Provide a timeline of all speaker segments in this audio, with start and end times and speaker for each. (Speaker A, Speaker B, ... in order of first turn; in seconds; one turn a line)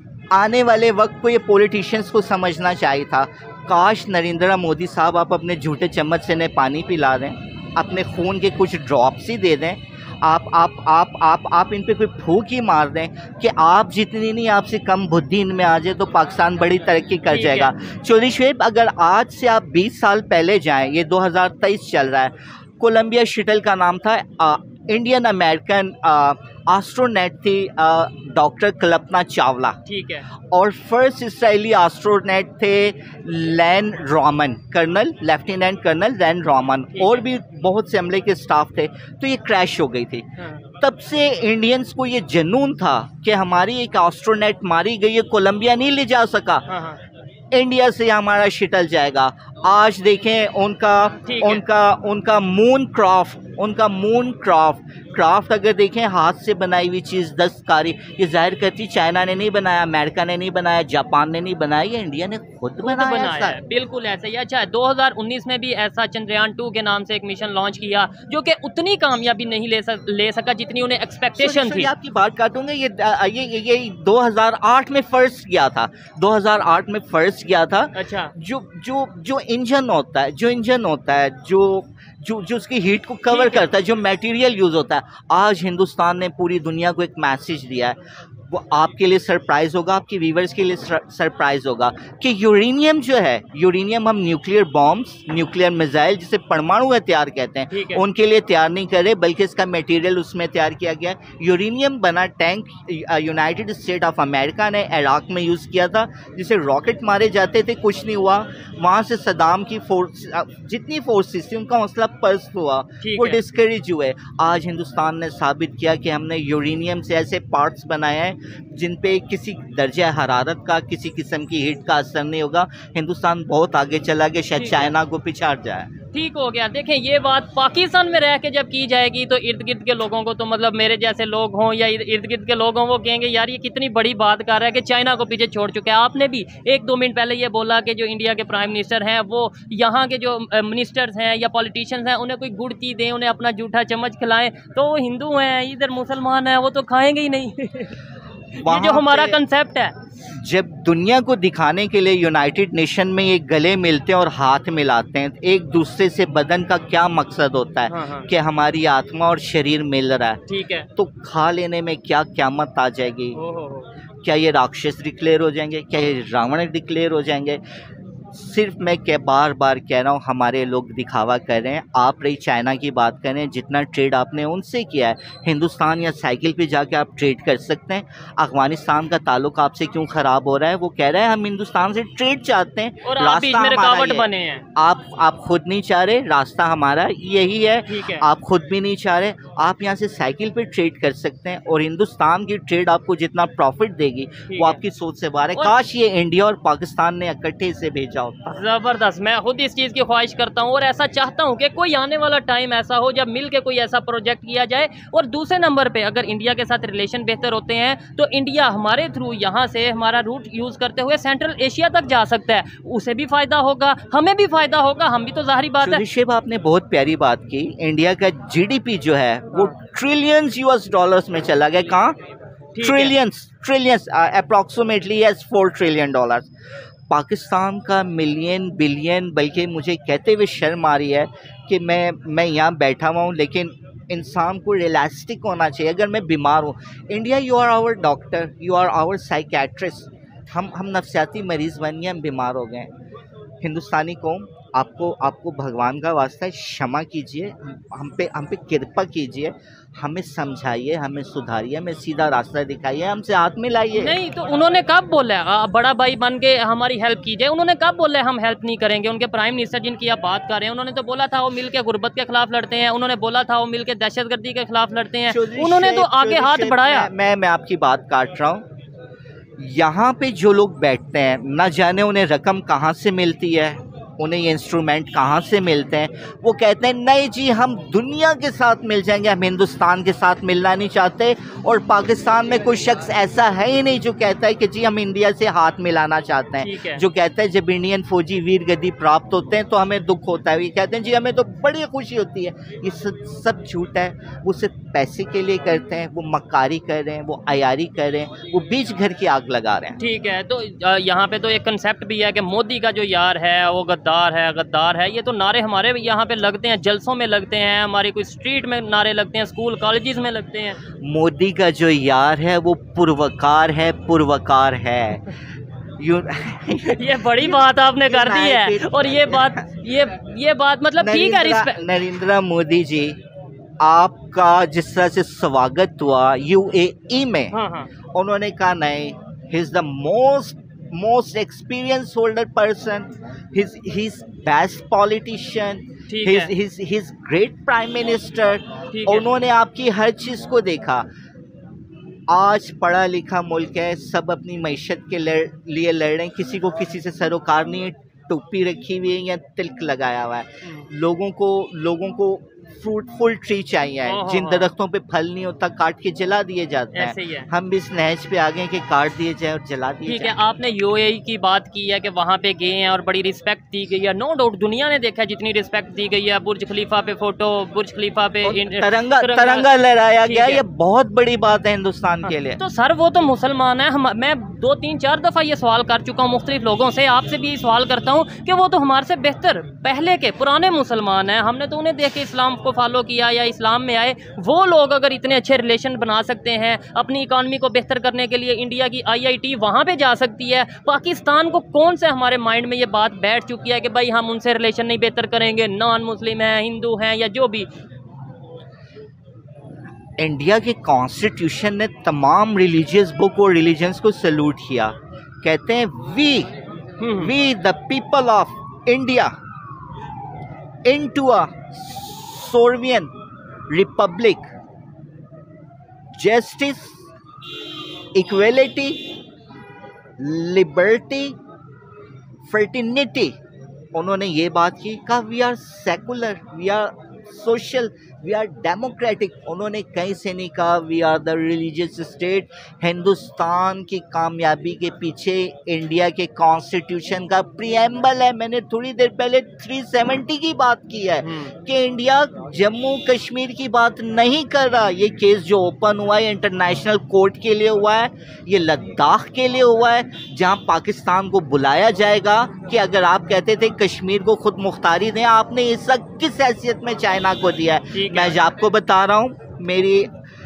Speaker A: 0.3-29.8
Speaker B: 17.3-17.7
Speaker B: 29.9-30.3
Speaker A: 30.5-46.7
Speaker B: 36.9-37.3
Speaker B: 40.4-40.6
Speaker B: 46.7-47.0
Speaker A: 47.5-63.6
Speaker B: 51.3-51.6
Speaker B: 62.8-71.9
Speaker A: 71.4-88.0
Speaker B: 78.0-78.3
Speaker B: 83.3-83.7
Speaker A: 88.5-125.9
Speaker B: 97.7-98.0
Speaker B: 113.0-113.4
Speaker B: 124.6-124.9
Speaker B: 126.1-148.0
Speaker A: 148.6-149.4
Speaker B: 148.6-149.9
Speaker A: 150.3-160.4
Speaker B: 157.9-158.3
Speaker B: 160.5-160.9
Speaker A: 160.9-163.4
Speaker B: 163.3-163.9
Speaker A: 164.2-167.6
Speaker A: 168.3-198.6
Speaker B: 183.0-184.7
Speaker B: 187.9-188.3
Speaker B: 194.5-194.8
Speaker B: 198.5-216.0
Speaker A: 215.8-222.2
Speaker B: 222.8-223.2
Speaker A: 222.8-226.5
Speaker A: 227.1-242.9
Speaker A: 243.6-254.2
Speaker B: 253.9-267.1
Speaker A: 265.3-268.6
Speaker A: 269.6-300.0
Speaker B: 286.6-287.0
Speaker B: 300.0-310.8
Speaker A: 311.0-315.3
Speaker A: 316.0-319.7
Speaker B: 317.0-321.8
Speaker A: 321.0-323.2
Speaker A: 323.8-327.6
Speaker B: 327.5-327.9
Speaker A: 328.1-341.1
Speaker B: 336.1-336.5
Speaker B: 338.9-339.3
Speaker A: 342.3-360.4
Speaker B: 354.1-354.7
Speaker B: 356.9-357.5
Speaker B: 360.1-369.7
Speaker A: 368.4-372.6
Speaker B: 370.3-370.6
Speaker B: 372.6-397.7
Speaker A: 400.2-406.5
Speaker B: 407.0-407.3
Speaker A: 407.1-409.3
Speaker A: 410.9-413.1
Speaker A: 413.7-414.5
Speaker A: 416.2-417.1
Speaker A: 418.1-419.1
Speaker A: 420.2-421.4
Speaker A: 422.5-423.4
Speaker A: 423.9-460.1
Speaker B: 441.2-441.5
Speaker B: 457.9-458.4